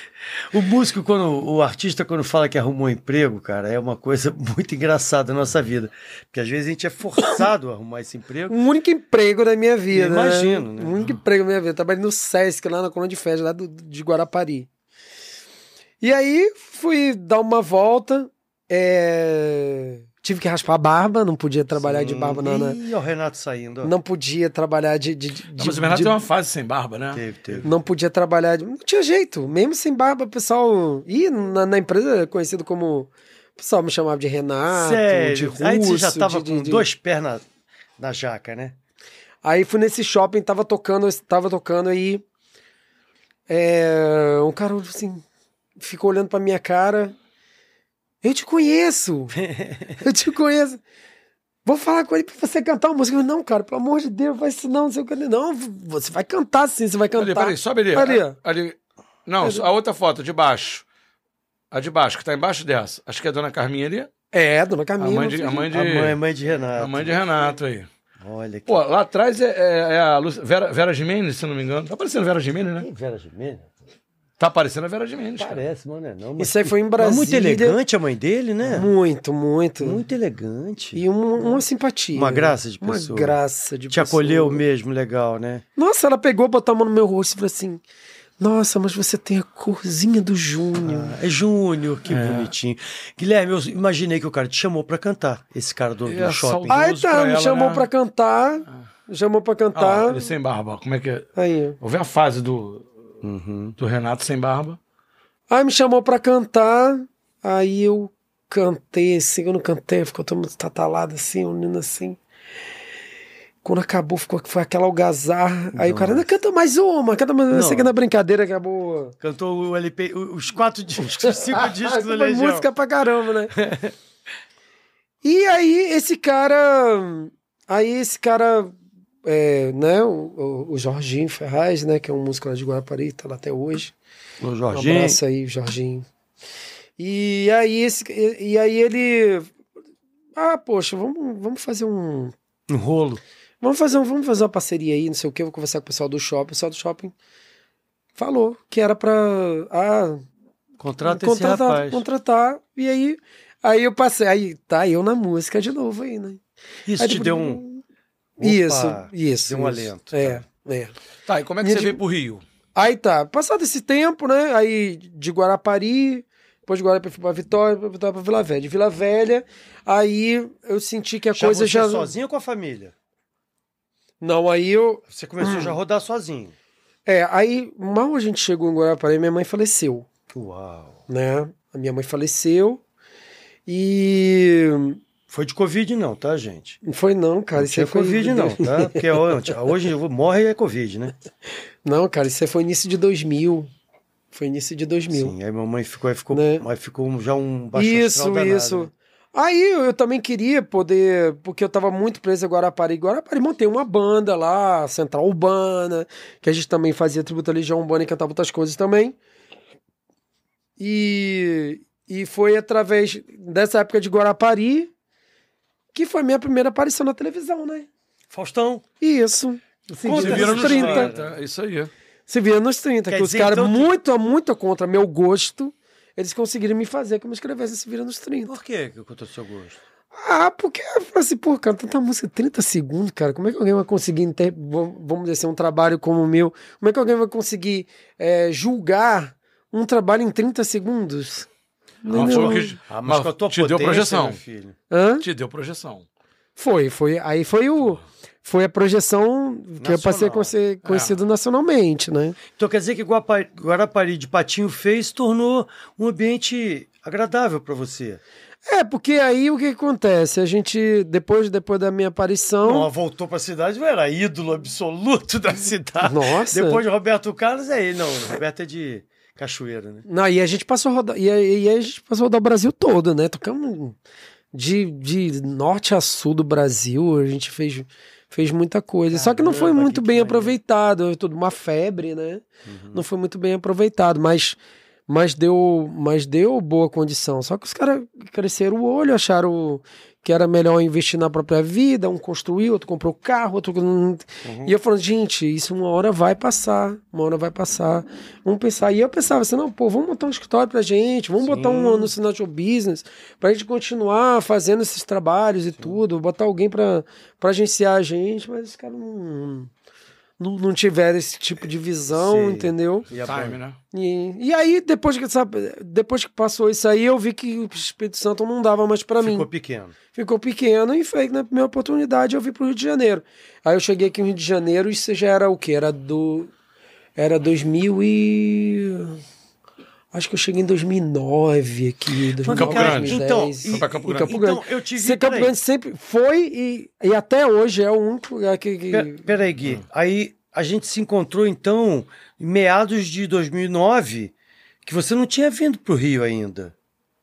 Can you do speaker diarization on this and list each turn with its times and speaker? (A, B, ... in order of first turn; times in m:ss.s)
0:00.5-0:08.6 A
0:08.5-0:14.7 B
0:09.9-0:11.2 A
0:16.0-0:22.8 B
0:21.7-0:23.9 A
0:23.8-0:26.2 B
0:25.6-0:27.6 C
0:27.1-0:27.7 A
0:27.6-0:36.9 B
0:34.7-0:37.4 A
0:38.0-0:38.8 A
0:39.4-0:42.2 B
0:43.5-0:45.2 B
0:45.8-0:47.2 B
0:48.2-0:49.4 B
0:49.3-0:50.0 A
0:50.0-0:50.8 B
0:51.6-0:58.4 B
0:57.2-1:00.8 C
1:01.7-1:04.1 C
1:04.3-1:05.7 B
1:05.0-1:06.2 C
1:05.7-1:07.4 A
1:06.8-1:07.9 C
1:08.2-1:08.8 A
1:08.7-1:12.9 C
1:12.8-1:13.7 A
1:14.4-1:15.6 C
1:15.4-1:18.9 A
1:16.4-1:17.8 B
1:18.7-1:20.0 B
1:19.8-1:21.6 A
1:21.0-1:24.6 B
1:22.1-1:23.4 A
1:23.9-1:25.6 A
1:25.8-1:27.8 B
1:28.4-1:31.2 B
1:30.8-1:36.9 A
1:32.1-1:32.5 C
1:36.1-1:37.9 C
1:36.7-1:40.3 B
1:39.8-1:41.3 C
1:41.4-1:41.8 B
1:41.8-1:42.9 C
1:43.2-1:43.8 A
1:43.8-1:44.8 C
1:45.5-1:52.2 B
1:53.6-1:59.2 B
1:55.7-1:56.3 A
1:57.5-1:57.9 A
1:59.2-2:02.7 A
2:01.0-2:03.6 B
2:03.5-2:04.0 A
2:05.2-2:14.0 B
2:14.4-2:15.2 A
2:14.7-2:16.0 B
2:17.0-2:19.5 B
2:20.4-2:22.3 B
2:22.7-2:23.2 A
2:23.6-2:27.1 B
2:28.2-2:30.2 B
2:30.8-2:32.0 A
2:31.0-2:36.4 B
2:36.9-2:37.6 A
2:37.0-2:37.8 B
2:38.4-2:40.4 A
2:38.4-2:40.9 B
2:41.3-2:42.4 C
2:41.6-2:42.0 B
2:42.8-2:52.1 B
2:51.3-2:52.9 A
2:54.2-2:55.8 B
2:55.1-2:56.5 A
2:57.1-3:00.1 B
3:00.3-3:01.0 A
3:01.1-3:02.8 B
3:03.7-3:05.0 B
3:05.3-3:06.8 A
3:06.8-3:09.0 B
3:07.6-3:11.1 A
3:11.8-3:13.7 B
3:14.3-3:15.4 B
3:15.1-3:18.9 A
3:16.3-3:16.7 B
3:17.7-3:29.2 B
3:30.8-3:34.9 B
3:35.9-3:37.9 B
3:38.3-3:38.8 A
3:39.0-3:41.1 B
3:40.0-3:41.4 A
3:40.2-3:41.9 C
3:42.3-3:48.6 B
3:43.1-3:43.9 A
3:48.5-3:49.8 A
3:50.1-4:01.5 B
4:02.0-4:02.8 B
4:02.1-4:04.8 A
4:02.1-4:04.4 C
4:04.9-4:05.3 B
4:05.2-4:06.0 C
4:06.6-4:12.4 B
4:09.8-4:10.5 A
4:10.8-4:11.2 C
4:12.6-4:18.2 A
4:18.7-4:22.9 B
4:22.6-4:30.1 A
4:26.0-4:26.8 B
4:30.1-4:34.0 B
4:34.5-4:44.6 B
4:39.1-4:40.6 A
4:42.6-4:43.0 A
4:45.1-5:09.7 B
4:54.4-4:54.7 A
5:01.4-5:02.1 A
5:10.4-5:13.1 B
5:12.1-5:13.6 A
5:13.2-5:13.8 C
5:13.9-5:19.5 B
5:19.2-5:20.0 A
5:20.1-5:26.5 B
5:27.2-5:29.2 B
5:30.1-5:39.3 B
5:32.4-5:35.5 A
5:32.5-5:34.3 C
5:38.9-5:46.7 A